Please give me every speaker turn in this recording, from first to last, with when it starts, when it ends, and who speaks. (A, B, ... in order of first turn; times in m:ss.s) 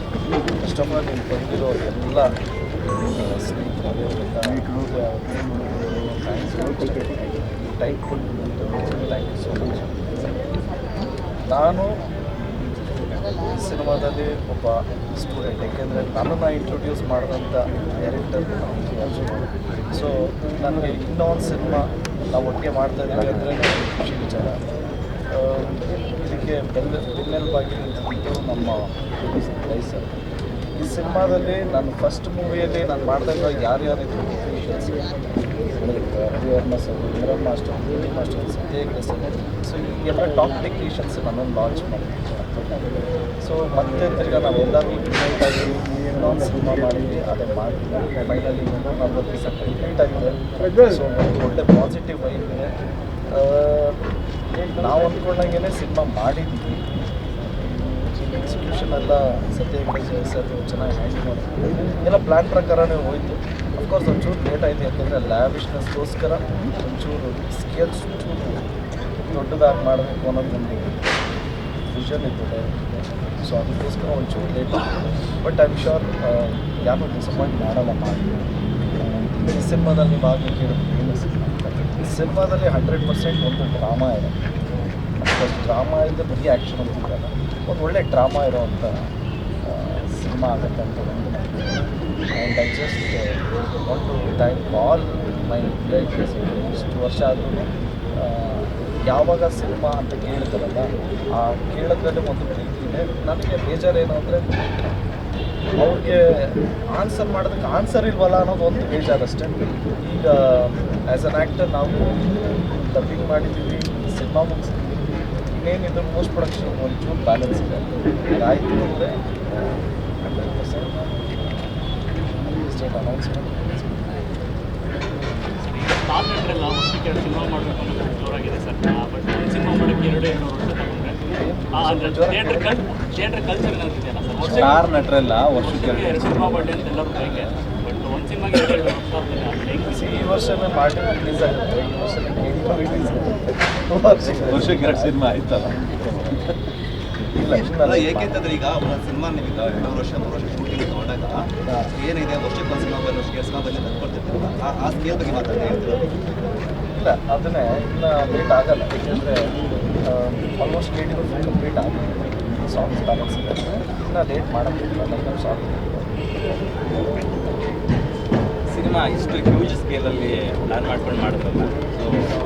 0:00.6-0:02.3 A
0:03.1-0:10.4 A
0:11.5-0:11.9 A
0:13.4-0:24.6 A
0:25.3-0:30.1 A
0:30.8-0:35.0 A
0:35.8-0:42.7 A
0:43.4-0:52.7 A
0:53.3-0:54.0 A
0:54.5-0:56.8 A
0:58.2-1:08.6 A
1:09.3-1:11.0 A
1:11.9-1:12.8 A
1:13.4-1:18.4 A
1:19.0-1:24.4 A
1:25.2-1:28.9 A
1:29.7-1:33.3 A
1:33.9-1:37.7 A
1:38.2-1:40.9 A
1:41.4-1:45.0 A
1:45.8-1:46.2 A
1:47.0-1:55.0 A
1:55.5-2:01.7 A
2:02.3-2:04.3 A
2:05.6-2:11.2 B
2:11.3-2:12.8 A
2:11.8-2:14.9 B
2:14.4-2:14.8 A
2:14.7-2:17.2 C
2:15.5-2:20.2 B
2:19.9-2:26.3 A
2:24.5-2:25.6 C
2:27.4-2:28.4 A
2:27.5-2:36.1 D
2:36.9-2:39.4 A
2:40.1-2:47.8 A
2:48.7-2:52.3 E